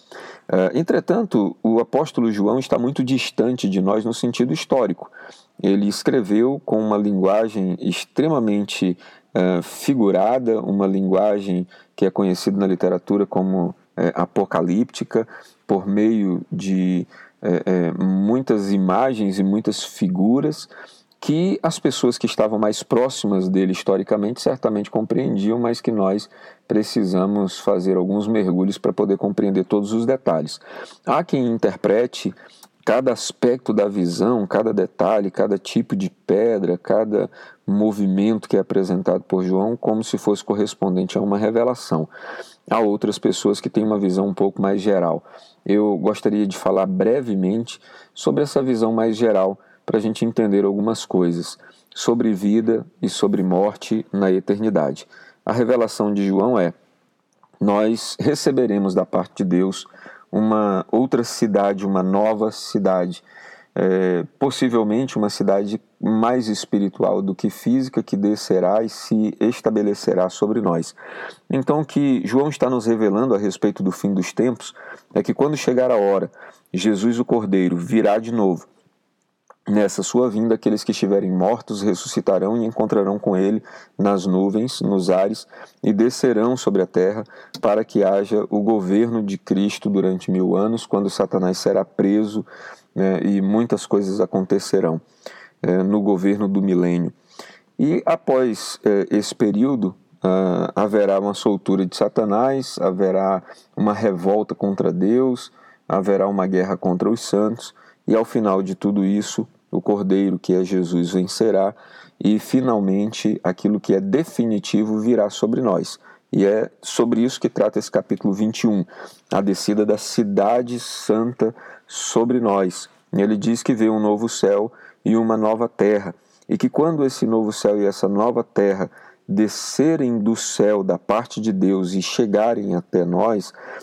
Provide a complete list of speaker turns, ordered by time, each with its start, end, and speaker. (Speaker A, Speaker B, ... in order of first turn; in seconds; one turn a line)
Speaker A: 0.5-42.1
Speaker A: 42.7-56.7
Speaker A: 57.6-63.2
Speaker A: 63.7-71.0
Speaker A: 71.5-78.7
Speaker A: 79.7-95.0
Speaker A: 95.6-97.1
Speaker A: 97.8-133.5